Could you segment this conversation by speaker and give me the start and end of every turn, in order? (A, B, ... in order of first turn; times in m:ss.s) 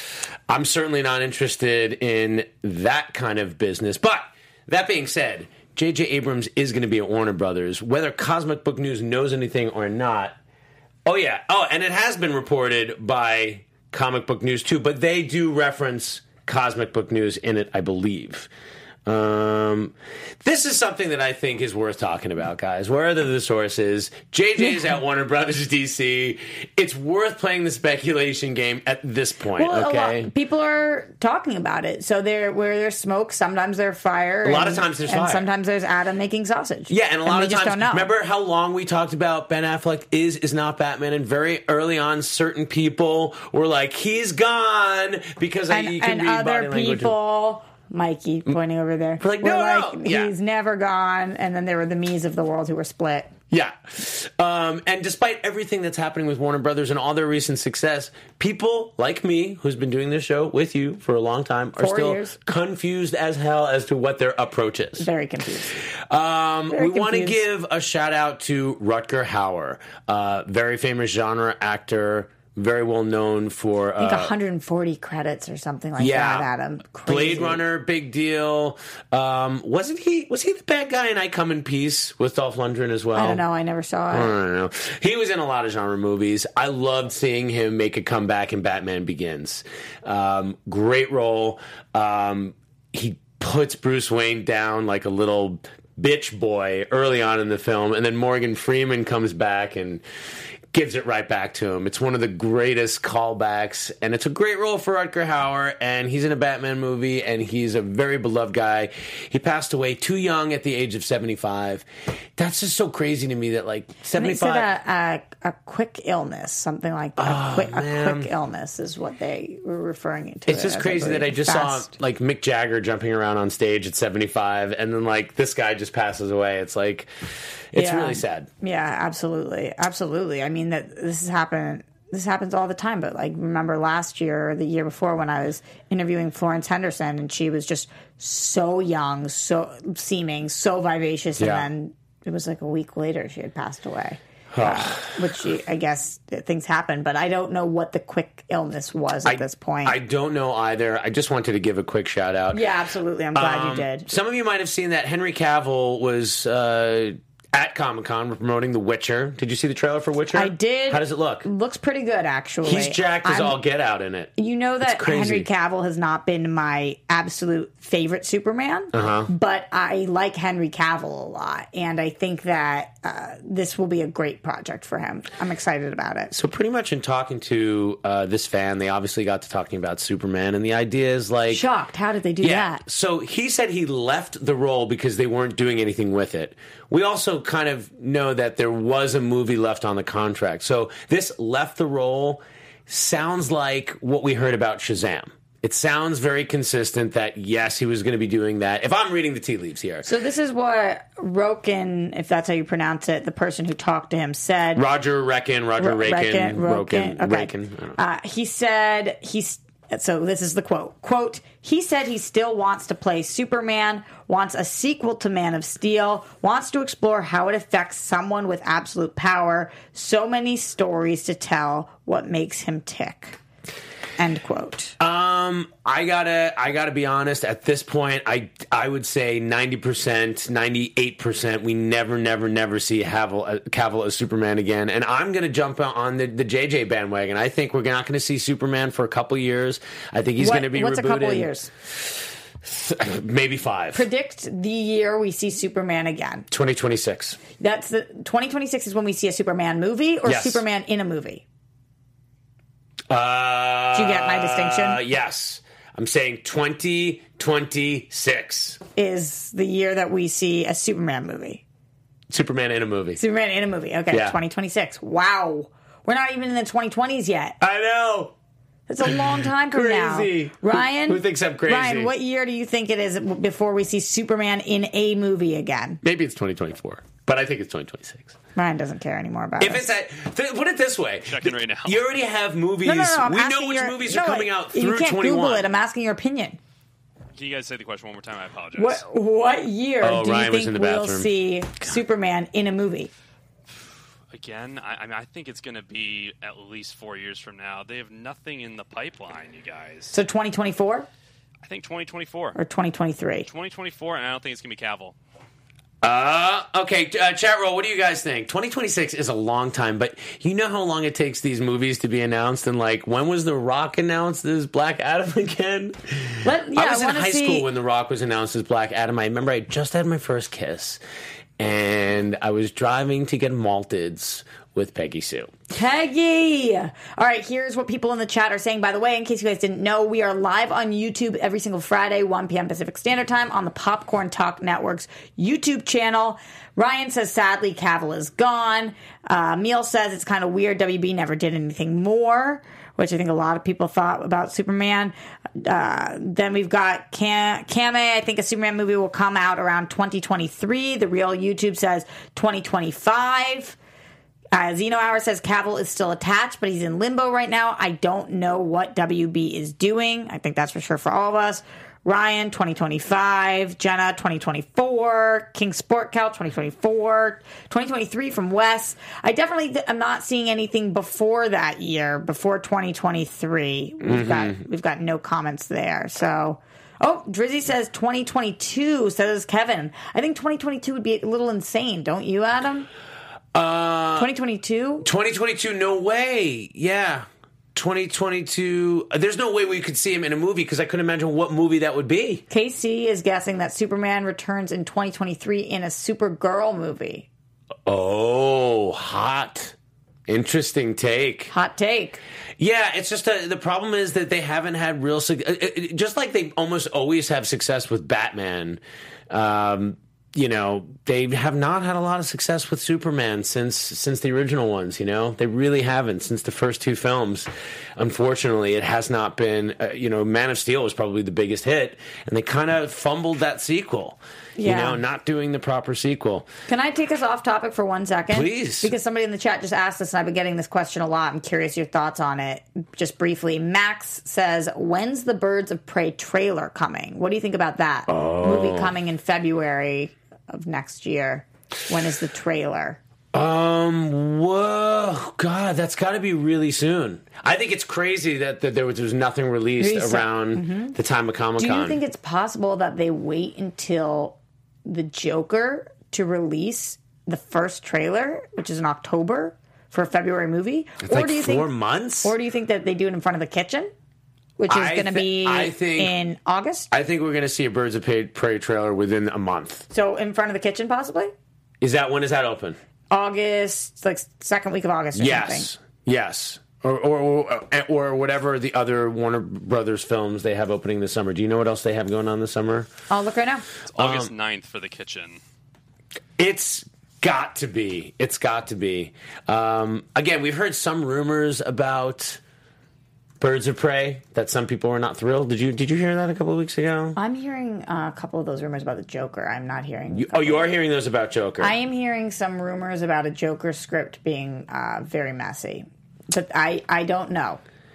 0:00.5-0:10.4 A
0:11.1-0:18.5 A
0:19.1-0:30.3 A
0:29.6-0:38.1 B
0:34.4-0:35.5 A
0:36.9-0:47.2 A
0:45.7-0:53.3 B
0:49.2-0:50.3 A
0:53.5-1:05.1 A
1:01.8-1:02.4 B
1:05.0-1:05.8 B
1:05.9-1:14.3 A
1:06.7-1:07.4 B
1:14.0-1:17.6 B
1:16.0-1:16.5 A
1:17.0-1:23.4 A
1:23.2-1:24.3 B
1:24.1-1:40.0 A
1:40.7-1:51.9 A
1:52.4-1:54.7 A
1:54.1-2:01.9 B
1:57.2-1:58.3 A
2:00.5-2:07.1 A
2:07.7-2:08.5 A
2:07.8-2:30.0 B
2:21.4-2:21.7 A
2:24.5-2:25.2 A
2:29.2-2:32.6 A
2:32.5-2:34.1 B
2:33.4-2:41.5 A
2:40.3-2:43.6 B
2:42.6-2:45.5 A
2:44.4-2:56.3 B
2:48.9-2:49.3 A
2:56.3-3:01.6 A
3:01.5-3:02.8 B
3:02.4-3:20.1 A
3:20.0-3:24.8 B
3:24.8-3:28.0 A
3:25.8-3:43.4 B
3:44.2-3:45.0 B
3:45.0-4:02.1 A
4:00.4-4:01.7 B
4:02.6-4:04.1 A
4:03.9-4:06.5 B
4:06.5-4:07.4 A
4:07.6-4:11.4 B
4:10.2-4:10.6 A
4:13.1-4:18.8 A
4:13.9-4:15.0 B
4:19.0-4:21.6 B
4:22.3-4:23.2 A
4:23.2-4:27.6 B
4:24.1-4:24.4 A
4:27.6-4:28.3 A
4:28.9-4:36.0 B
4:29.0-4:32.1 A
4:36.0-4:38.3 A
4:38.6-4:39.8 B
4:39.6-4:45.7 A
4:41.3-4:42.0 C
4:42.8-4:46.6 B
4:47.4-4:49.0 C
4:48.8-4:53.1 B
4:50.0-4:51.3 A
4:54.3-5:00.1 C
5:00.1-5:01.1 B
5:01.6-5:02.6 C
5:02.6-5:03.5 B
5:03.5-5:05.2 C
5:06.0-5:21.0 A
5:16.4-5:17.7 B
5:21.6-5:25.5 A
5:25.7-5:53.8 B
5:54.5-6:22.9 B
6:14.0-6:14.6 A
6:23.5-6:24.3 A
6:24.2-6:25.1 B
6:25.0-6:32.4 A
6:32.5-6:37.3 B
6:37.9-6:39.8 A
6:40.3-6:41.5 A
6:41.5-6:42.2 B
6:42.6-7:06.5 A
7:04.6-7:05.0 B
7:06.7-7:23.0 B
7:08.3-7:08.9 A
7:18.1-7:19.0 A
7:23.3-7:32.0 A
7:29.8-7:31.0 B
7:31.6-7:41.7 B
7:41.0-7:42.4 A
7:42.2-7:43.9 B
7:44.6-7:46.9 B
7:44.7-7:46.2 A
7:46.9-7:49.9 A
7:49.9-7:51.3 B
7:51.8-7:52.8 A
7:53.1-7:55.7 B
7:55.1-8:02.9 A
8:03.1-8:03.7 B
8:03.9-8:05.4 C
8:04.0-8:04.3 A
8:06.4-8:12.4 A
8:13.4-8:17.2 A
8:17.2-8:20.7 B
8:20.1-8:21.7 A
8:21.6-8:27.6 B